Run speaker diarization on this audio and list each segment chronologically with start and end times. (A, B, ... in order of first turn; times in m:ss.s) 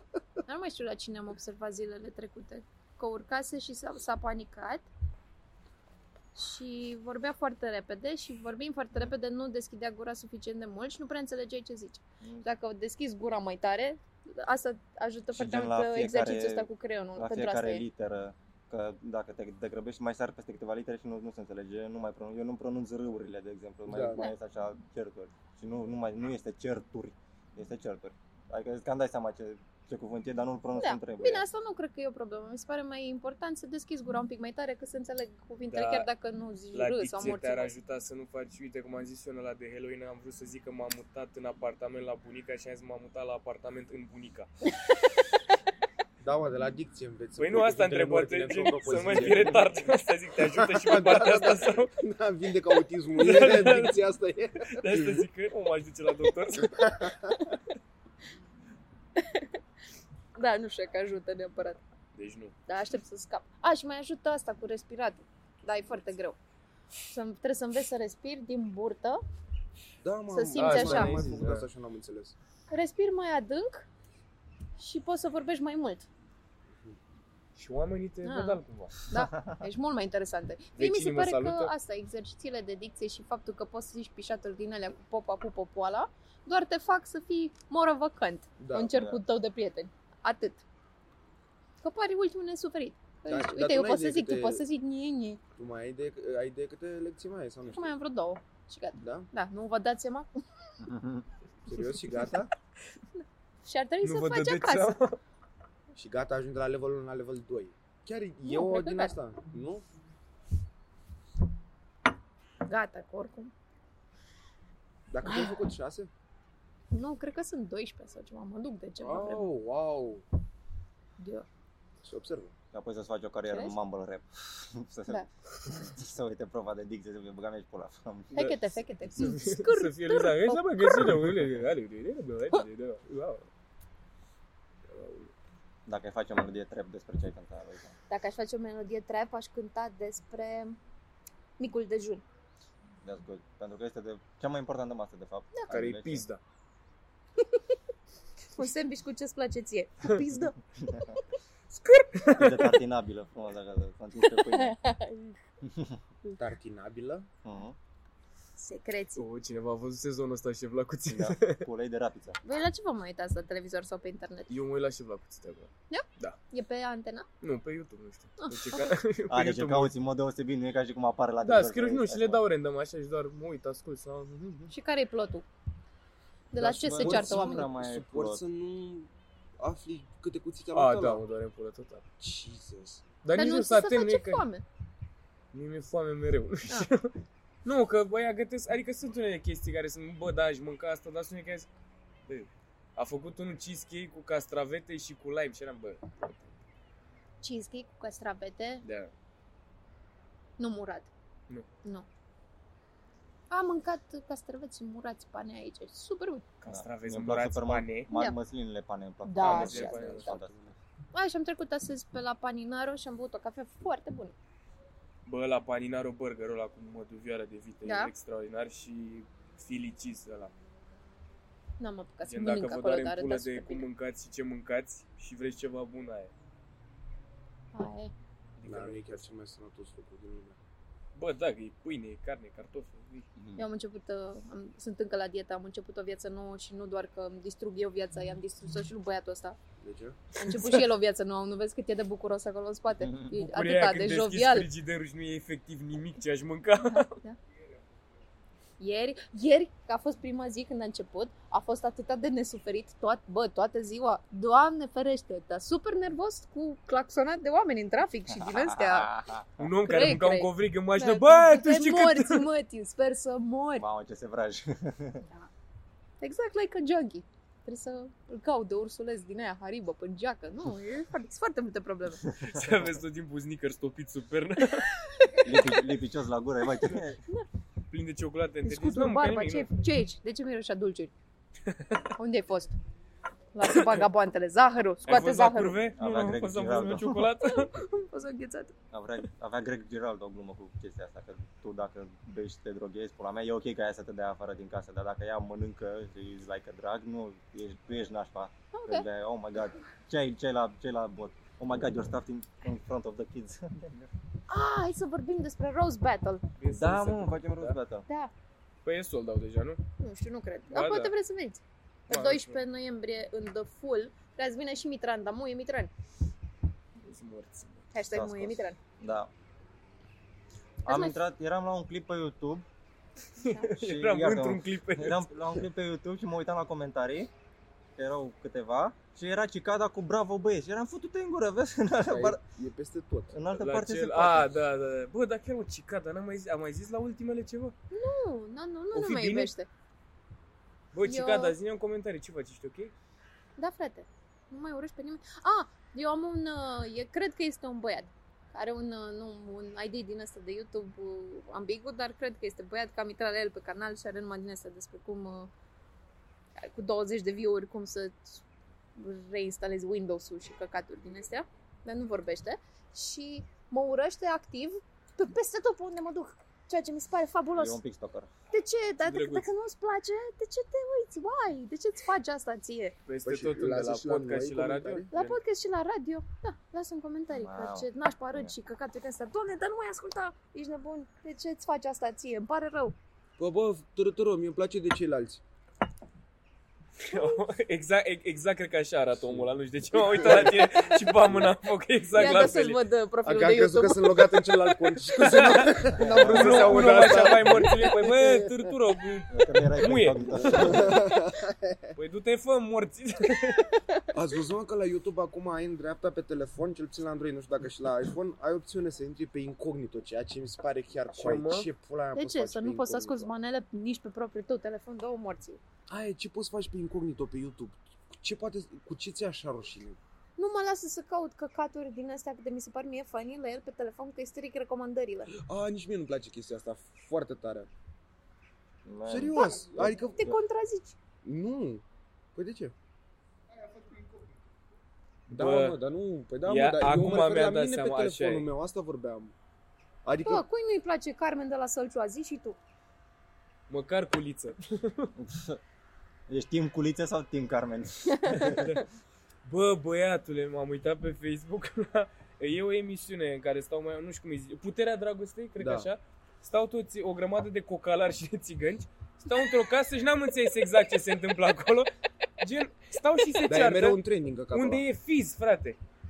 0:00.4-0:04.9 A
0:06.3-0:17.8 A
0:15.3-0:31.4 B
0:23.9-0:24.2 C
0:30.8-0:37.7 A
0:35.7-0:36.1 D
0:36.7-0:44.5 D
0:46.2-0:55.2 C
0:47.4-0:51.9 D
0:53.1-0:54.1 D
0:54.6-0:57.1 D
0:56.5-0:57.5 C
0:59.2-0:59.6 A
1:00.4-1:01.8 A
1:02.1-1:02.5 D
1:02.7-1:06.4 A
1:07.1-1:09.2 A
1:10.0-1:12.3 C
1:10.3-1:11.2 A
1:10.5-1:11.7 D
1:12.7-1:13.9 A
1:14.8-1:16.1 A
1:17.6-1:19.0 D
1:18.2-1:30.6 A
1:19.1-1:19.6 B
1:20.8-1:21.7 D
1:28.6-1:28.9 C
1:28.9-1:29.2 B
1:31.8-1:35.4 A
1:33.3-1:34.6 C
1:35.5-1:37.9 C
1:37.7-1:40.3 A
1:39.0-1:39.3 C
1:40.8-1:41.2 B
1:41.6-1:42.5 C
1:43.2-1:45.0 A
1:44.0-1:45.2 D
1:45.9-1:49.8 C
1:48.4-1:49.1 A
1:52.6-1:53.5 A
1:55.1-1:56.1 C
1:55.2-1:55.5 A
1:56.9-1:59.5 A
1:59.0-2:00.2 C
2:01.2-2:01.4 A
2:02.0-2:02.5 C
2:02.7-2:08.5 B
2:03.5-2:03.7 A
2:08.3-2:11.2 A
2:09.2-2:13.5 D
2:14.9-2:15.3 D
2:15.8-2:17.9 B
2:18.1-2:20.8 A
2:21.6-2:22.2 A
2:23.0-2:26.2 B
2:25.7-2:26.4 D
2:28.5-2:31.2 A
2:30.9-2:31.1 B
2:31.7-2:32.8 D
2:32.3-2:34.8 B
2:34.2-2:35.4 A
2:35.6-2:36.0 B
2:36.4-2:37.3 C
2:37.4-2:37.8 B
2:38.6-2:39.2 A
2:39.2-2:41.6 D
2:41.1-2:42.4 B
2:42.4-2:44.5 A
2:44.5-2:46.4 D
2:45.9-2:47.3 A
2:47.4-2:49.9 D
2:48.4-2:48.9 A
2:49.3-2:52.4 B
2:51.4-2:54.7 D
2:54.7-2:55.4 A
2:56.5-2:57.7 A
2:56.6-2:58.4 B
2:57.0-3:01.2 C
3:00.7-3:02.0 D
3:02.2-3:03.0 C
3:03.2-3:04.4 D
3:03.3-3:04.6 A
3:05.5-3:07.1 D
3:07.6-3:11.7 D
3:12.3-3:16.6 D
3:17.4-3:18.8 A
3:18.8-3:19.1 D
3:20.6-3:21.1 A
3:23.5-3:26.4 A
3:26.6-3:28.1 D
3:26.7-3:30.7 B
3:28.1-3:28.4 A
3:29.2-3:30.4 A
3:29.4-3:30.4 D
3:29.6-3:30.7 C
3:31.1-3:34.4 A
3:35.2-3:40.5 D
3:37.8-3:38.1 A
3:41.8-3:43.8 A
3:42.2-3:46.3 D
3:47.7-3:48.1 A
3:48.6-3:49.3 D
3:48.6-3:50.6 C
3:51.2-3:53.3 D
3:53.4-3:53.6 B
3:53.6-3:59.6 A
3:59.8-4:00.2 C
4:00.4-4:04.7 A
4:00.5-4:00.8 D
4:03.0-4:03.3 B
4:03.3-4:07.2 D
4:06.8-4:07.4 A
4:08.8-4:19.1 A
4:18.3-4:19.5 B
4:19.6-4:22.5 D
4:19.8-4:23.8 A
4:23.8-4:25.2 B
4:25.2-4:25.5 A
4:26.2-4:32.2 A
4:32.4-4:32.6 B
4:32.4-4:34.9 D
4:34.9-4:35.8 A
4:35.4-4:37.2 B
4:37.9-4:39.7 D
4:38.6-4:41.1 A
4:41.6-4:42.1 D
4:42.1-4:42.8 A
4:43.5-4:45.8 A
4:43.8-4:44.0 D
4:45.0-4:47.8 D
4:46.0-4:47.3 B
4:47.4-4:48.7 A
4:48.9-5:03.9 B
4:58.7-4:59.0 A
5:04.5-5:06.4 A
5:06.6-5:07.8 D
5:06.7-5:08.0 B
5:08.1-5:08.3 A
5:08.8-5:09.8 D
5:10.0-5:15.9 A
5:10.7-5:11.1 D
5:12.1-5:12.6 D
5:17.0-5:17.9 D
5:17.9-5:18.8 A
5:18.1-5:19.3 B
5:20.8-5:22.6 B
5:20.8-5:21.2 A
5:23.4-5:23.6 A
5:23.4-5:25.3 D
5:23.6-5:27.3 B
5:28.0-5:32.4 B
5:32.1-5:33.4 C
5:33.3-5:34.5 B
5:33.6-5:37.7 D
5:37.9-5:39.7 A
5:38.9-5:39.5 D
5:40.9-5:42.9 D
5:41.0-5:41.6 A
5:43.6-5:55.5 A
5:56.6-5:58.4 A
5:59.0-6:07.8 A
6:07.5-6:08.3 B
6:08.5-6:13.0 A
6:09.0-6:09.5 D
6:13.0-6:15.4 D
6:13.2-6:15.1 C
6:15.1-6:23.0 A
6:17.3-6:18.5 B
6:23.4-6:25.4 C
6:27.0-6:32.8 D
6:27.1-6:27.4 A
6:29.2-6:31.5 C
6:32.1-6:35.5 A
6:33.2-6:38.6 C
6:35.2-6:40.8 D
6:36.0-6:36.8 B
6:39.3-6:41.0 B
6:40.2-6:41.9 C
6:41.9-6:43.6 D
6:43.6-6:44.0 A
6:44.1-6:53.3 C
6:51.1-6:51.7 D
6:52.2-6:55.6 A
6:55.9-7:00.0 C
7:00.4-7:05.3 A
7:05.4-7:07.7 C
7:08.8-7:09.9 B
7:09.1-7:10.4 C
7:09.3-7:11.0 A
7:11.2-7:11.8 C
7:12.3-7:12.7 C
7:15.3-7:15.8 D
7:15.3-7:19.3 C
7:16.4-7:18.5 D
7:20.0-7:20.4 C
7:20.2-7:22.6 A
7:23.7-7:25.1 D
7:25.2-7:25.6 B
7:26.3-7:28.7 B
7:28.3-7:28.8 D
7:29.4-7:45.8 D
7:35.6-7:35.9 C
7:43.5-7:44.8 C